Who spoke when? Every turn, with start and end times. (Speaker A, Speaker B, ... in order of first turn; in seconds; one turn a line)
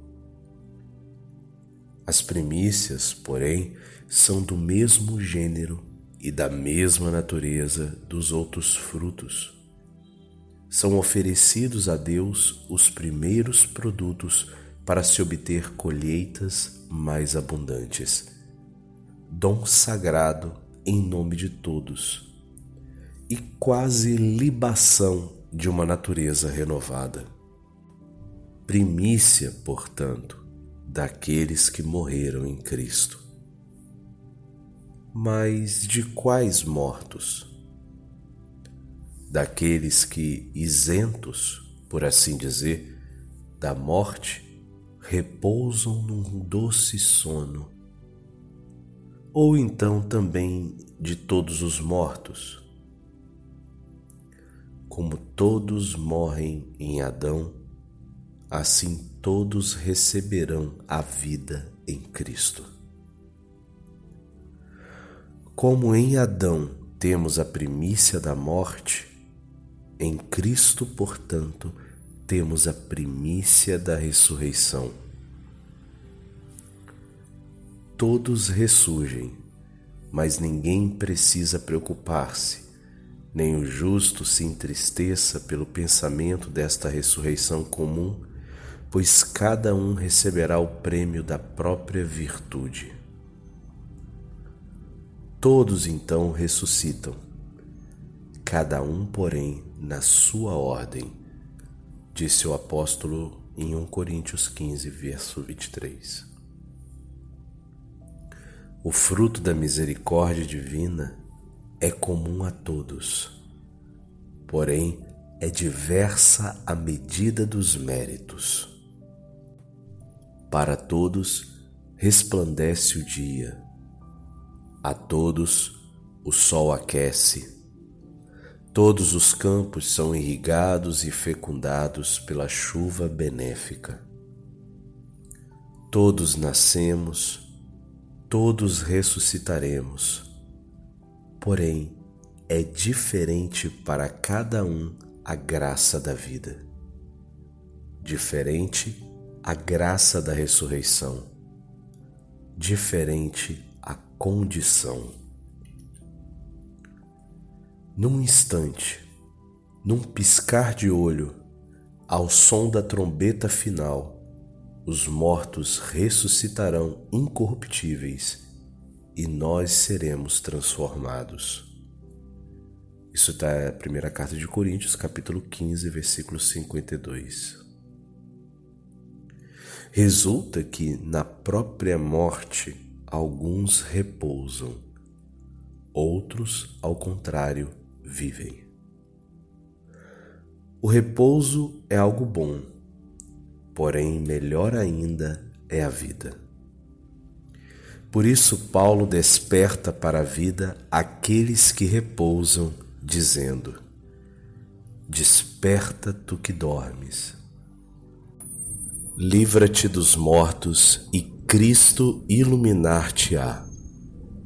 Speaker A: 2.0-9.6
Speaker A: 10.7-18.3
Speaker A: 19.3-22.3
Speaker A: 23.3-27.3
Speaker A: 28.7-33.2
Speaker A: 35.1-37.5
Speaker A: 39.3-42.9
Speaker A: 43.6-47.7
Speaker A: 49.3-52.6
Speaker A: 54.9-57.6
Speaker A: 58.5-62.7
Speaker A: 65.5-69.1
Speaker A: 70.0-75.0
Speaker A: 78.0-79.4
Speaker A: 80.1-82.7
Speaker A: 83.3-88.2
Speaker A: 88.9-92.9
Speaker A: 95.4-97.2
Speaker A: 98.4-101.2
Speaker A: 102.1-106.3
Speaker A: 108.8-111.2
Speaker A: 111.8-113.3
Speaker A: 114.5-118.7
Speaker A: 120.5-123.6
Speaker A: 124.8-127.5
Speaker A: 128.7-134.0
Speaker A: 135.9-137.5
Speaker A: 138.3-140.3
Speaker A: 141.4-146.6
Speaker A: 148.0-151.3
Speaker A: 152.6-155.2
Speaker A: 157.9-159.1
Speaker A: 159.8-161.4
Speaker A: 162.1-164.2
Speaker A: 164.8-168.4
Speaker A: 169.1-171.7
Speaker A: 173.1-177.6
Speaker A: 179.9-184.8
Speaker A: 185.9-188.7
Speaker A: 190.8-192.7
Speaker A: 193.7-196.4
Speaker A: 198.1-203.8
Speaker A: 205.1-207.4
Speaker A: 209.2-213.7